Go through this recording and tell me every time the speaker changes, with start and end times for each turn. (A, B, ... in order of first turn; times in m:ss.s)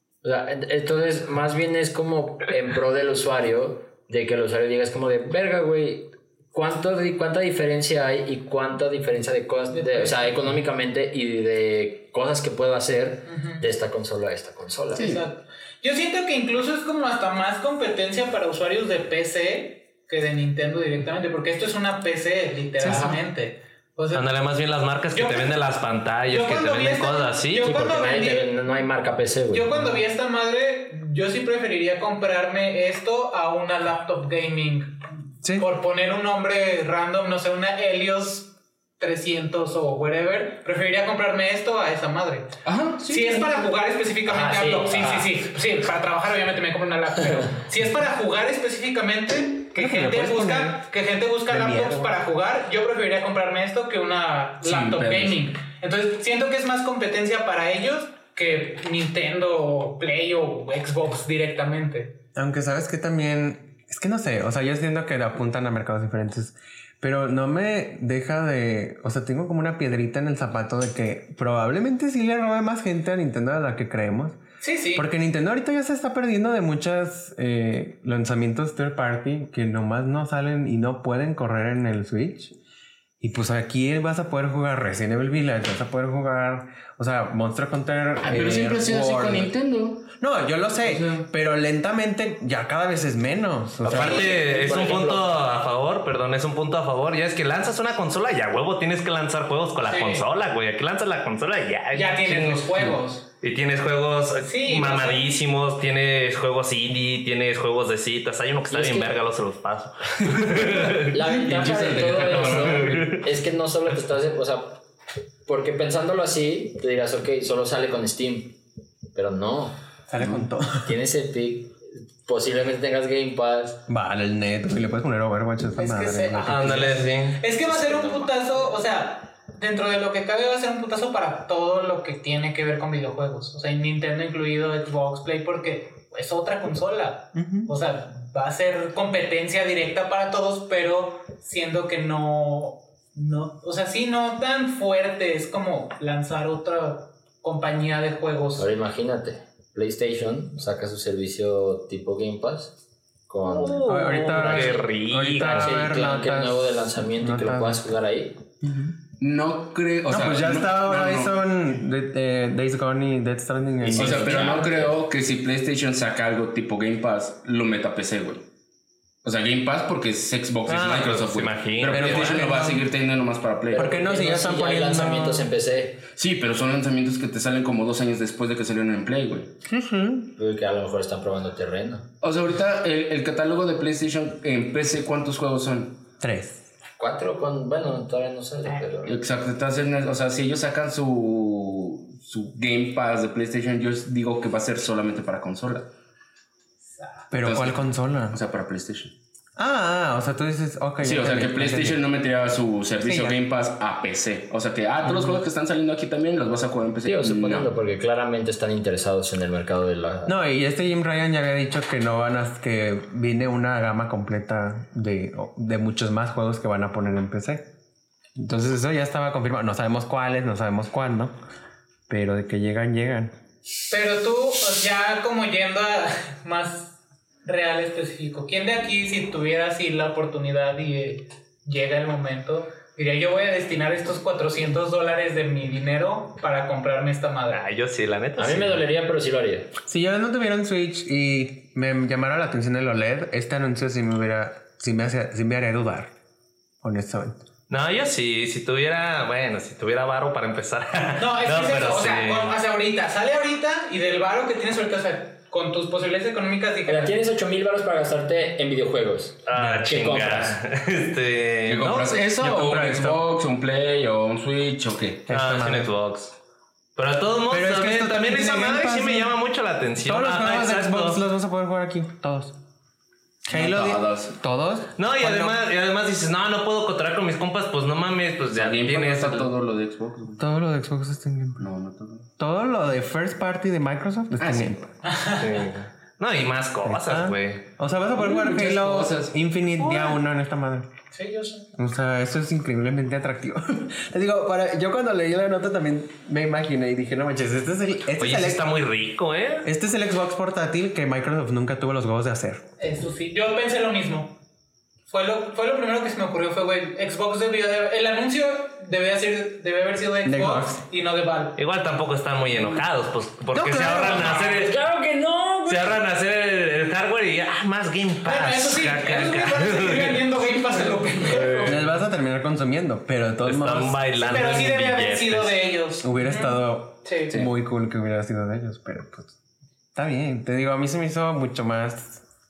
0:00.2-0:15.1 A
0:09.7-0:10.5 B
0:13.3-0:13.6 B
0:14.9-0:24.3 B
0:15.0-0:15.2 C
0:22.8-0:23.1 D
0:22.8-0:23.2 C
0:24.1-0:27.7 E
0:25.1-0:25.7 B
0:26.3-0:28.5 B
0:27.6-0:29.9 A
0:29.5-0:35.0 B
0:35.6-1:02.2 B
0:42.6-0:43.7 C
0:44.2-0:45.3 A
0:49.7-0:50.8 D
0:51.5-0:52.2 D
0:54.6-0:55.4 C
1:02.3-1:14.4 D
1:14.6-1:15.0 B
1:14.9-1:22.5 D
1:23.2-1:29.5 D
1:28.2-1:30.1 C
1:30.1-1:34.3 D
1:30.8-1:31.3 C
1:33.8-1:51.2 E
1:33.9-1:35.3 A
1:34.0-1:34.4 B
1:39.8-1:40.2 B
1:41.9-1:43.2 B
1:44.4-1:45.3 B
1:48.7-1:49.2 A
1:50.3-1:53.2 C
1:51.1-1:54.8 A
1:51.8-1:53.2 E
1:55.4-1:58.6 A
1:59.1-1:59.8 A
2:00.1-2:01.0 D
2:00.8-2:03.8 A
2:03.9-2:07.1 D
2:05.8-2:28.7 B
2:06.4-2:07.4 E
2:07.7-2:08.4 A
2:17.3-2:17.7 D
2:28.6-2:32.8 A
2:33.3-2:38.4 A
2:33.4-2:35.9 E
2:33.8-2:37.9 D
2:38.6-2:39.0 D
2:39.2-2:41.4 C
2:40.1-2:44.6 D
2:43.8-2:48.4 C
2:43.8-2:45.0 A
2:49.2-2:53.9 C
2:50.7-2:52.5 E
2:51.9-2:52.9 D
2:53.7-2:56.0 A
2:53.7-2:55.5 D
2:56.1-2:59.5 C
2:59.6-3:00.3 D
3:00.3-3:02.1 A
3:02.2-3:06.1 C
3:06.2-3:06.6 D
3:07.0-3:09.2 A
3:09.0-3:15.9 C
3:16.9-3:17.2 B
3:17.3-3:18.4 D
3:17.4-3:19.1 C
3:19.6-3:22.0 D
3:21.0-3:27.7 C
3:23.0-3:23.4 D
3:25.0-3:25.4 D
3:27.0-3:30.3 A
3:30.2-3:37.7 D
3:38.4-3:41.3 D
3:42.1-3:43.3 D
3:43.9-3:57.6 B
3:57.5-3:58.8 E
3:58.4-3:59.7 A
3:59.8-4:06.1 D
4:06.8-4:07.4 D
4:07.7-4:12.5 E
4:11.2-4:17.2 B
4:16.8-4:20.6 A
4:19.4-4:22.2 E
4:19.5-4:19.9 D
4:21.6-4:25.3 C
4:22.4-4:23.2 D
4:25.3-4:25.9 D
4:25.3-4:26.4 E
4:27.0-4:31.2 E
4:27.5-4:29.4 D
4:30.0-4:32.5 D
4:33.5-4:35.6 D
4:33.5-4:34.4 C
4:35.0-4:39.5 E
4:38.5-4:40.4 C
4:40.4-4:41.7 D
4:41.6-4:42.2 C
4:42.4-4:44.8 D
4:44.4-4:44.8 C
4:45.0-4:45.6 B
4:45.4-4:47.6 E
4:46.8-4:50.9 D
4:48.1-4:49.3 C
4:49.8-4:50.1 E
4:51.1-4:51.7 B
4:51.8-4:58.6 D
4:58.2-4:59.7 E
4:59.6-5:02.6 D
5:02.8-5:04.4 B
5:05.1-5:11.6 B
5:10.2-5:10.8 D
5:11.6-5:14.7 E
5:13.8-5:14.3 B
5:14.2-5:16.0 A
5:15.6-5:20.2 E
5:18.2-5:21.9 B
5:21.3-5:21.8 E
5:21.6-5:24.7 D
5:23.4-5:25.6 E
5:24.2-5:27.3 B
5:26.0-5:29.4 D
5:29.9-5:32.2 D